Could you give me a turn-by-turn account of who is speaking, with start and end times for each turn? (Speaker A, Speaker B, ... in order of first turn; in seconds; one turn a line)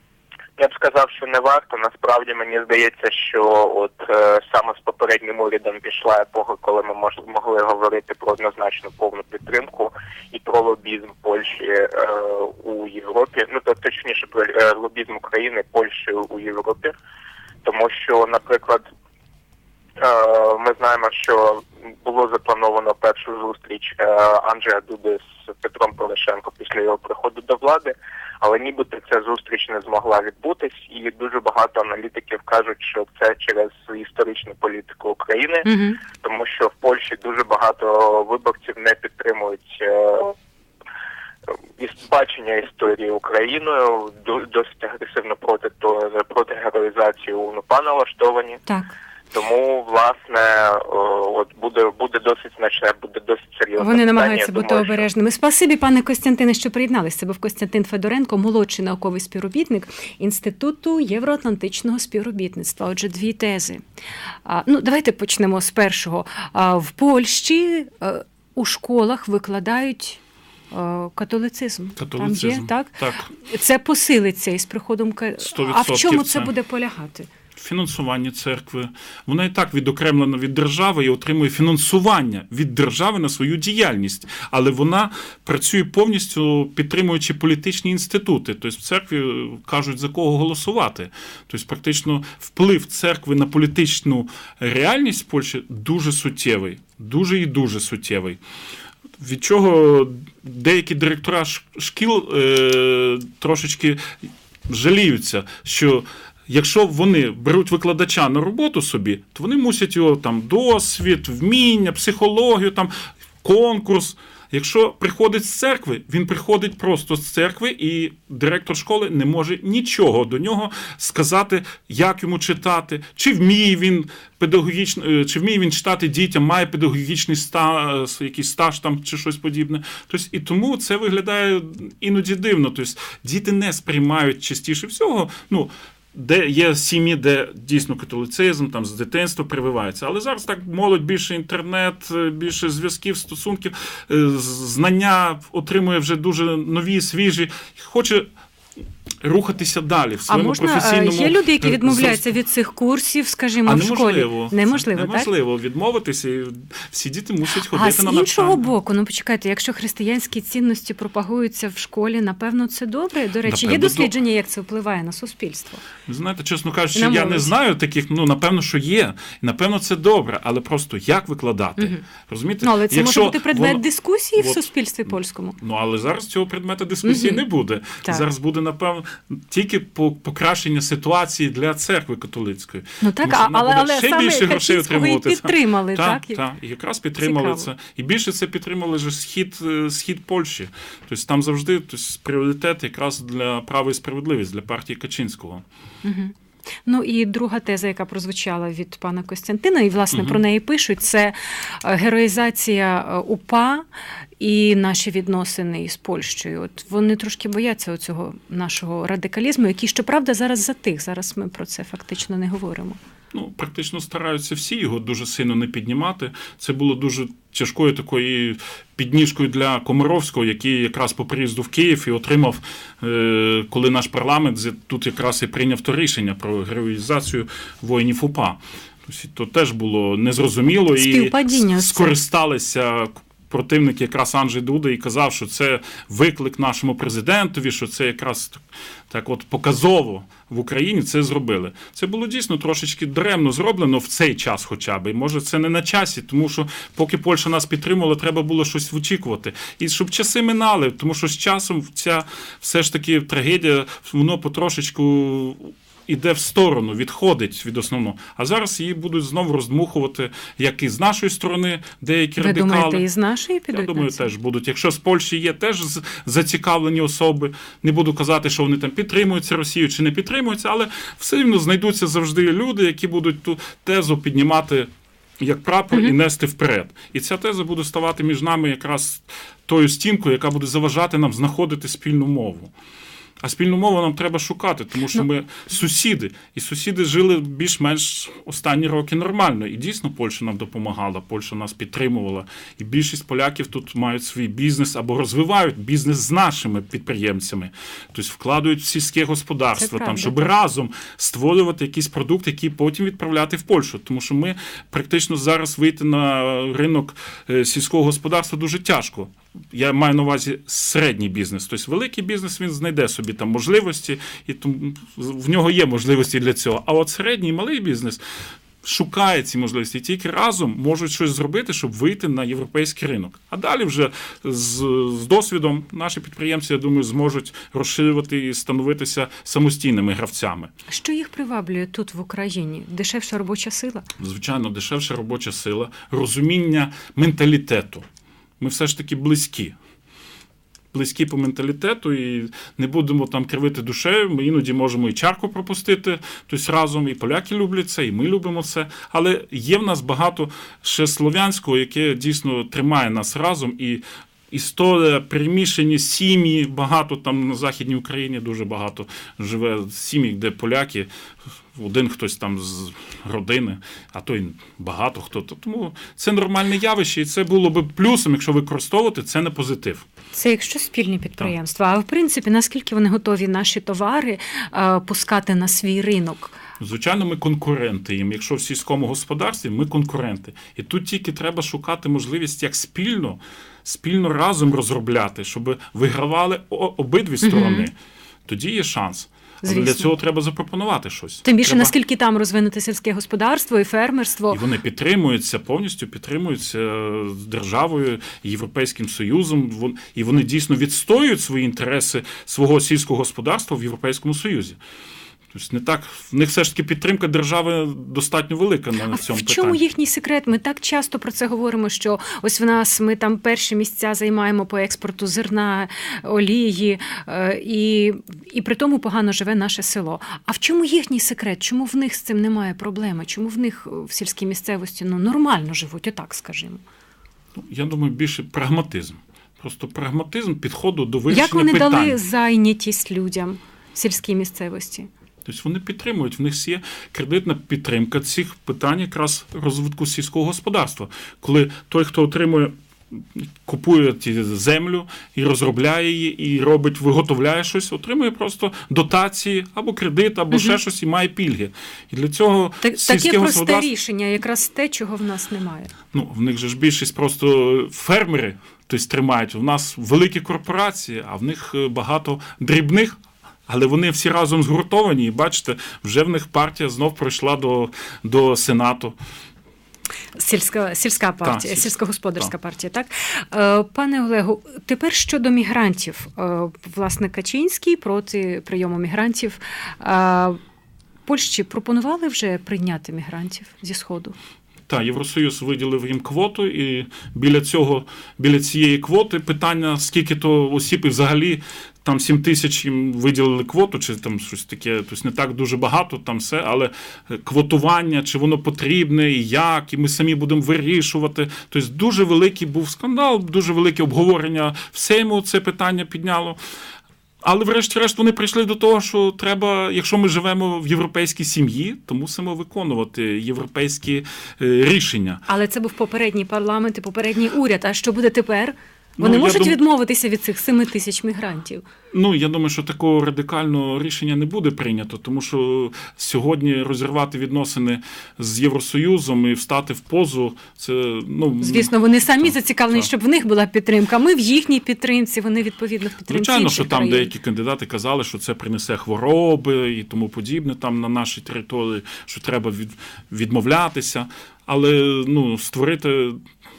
Speaker A: 0.6-16.9
Speaker A: 17.6-18.8
Speaker A: 20.0-35.6
Speaker B: 35.6-36.0
Speaker A: 36.2-40.3
Speaker A: 41.8-48.6
Speaker B: 48.6-48.9
Speaker A: 49.3-55.0
Speaker B: 53.8-63.8
Speaker B: 64.5-70.2
Speaker B: 70.7-77.3
Speaker C: 72.0-73.3
Speaker C: 75.4-76.5
Speaker C: 77.5-98.4
Speaker C: 99.2-148.3
Speaker C: 149.2-152.2
Speaker B: 150.3-155.3
Speaker C: 153.7-158.7
Speaker B: 157.7-165.8
Speaker C: 163.4-164.1
Speaker C: 166.1-173.8
Speaker B: 166.9-167.5
Speaker B: 172.6-175.6
Speaker C: 174.3-195.6
Speaker B: 177.0-177.4
Speaker B: 183.0-186.4
Speaker B: 187.2-187.7
Speaker B: 196.0-196.3
Speaker B: 196.8-203.8
Speaker C: 200.1-200.4
Speaker B: 204.4-213.0
Speaker C: 213.3-263.1
Speaker B: 230.9-232.1
Speaker B: 262.4-264.3
Speaker C: 263.7-274.9
Speaker C: 275.4-282.7
Speaker C: 283.4-318.2
Speaker B: 299.8-300.4
Speaker C: 318.8-330.7
Speaker B: 330.9-334.1
Speaker C: 334.2-338.0
Speaker C: 338.6-339.7
Speaker C: 340.9-361.1
Speaker C: 361.7-370.1
Speaker B: 370.3-376.5
Speaker C: 376.8-387.9
Speaker B: 387.4-387.9
Speaker C: 388.4-391.9
Speaker B: 389.6-390.1
Speaker B: 391.4-394.6
Speaker C: 394.5-404.8
Speaker C: 405.5-409.8
Speaker B: 409.1-426.8
Speaker C: 427.5-432.1
Speaker B: 431.3-435.1
Speaker C: 435.4-453.9
Speaker B: 450.5-450.8
Speaker B: 452.8-455.9
Speaker C: 456.1-469.1
Speaker B: 470.4-480.6
Speaker C: 471.4-472.5
Speaker B: 481.2-484.4
Speaker C: 484.9-506.6
Speaker C: 507.4-515.4
Speaker B: 515.5-521.8
Speaker C: 519.2-519.8
Speaker C: 522.1-533.1
Speaker B: 531.6-537.3
Speaker C: 536.3-546.4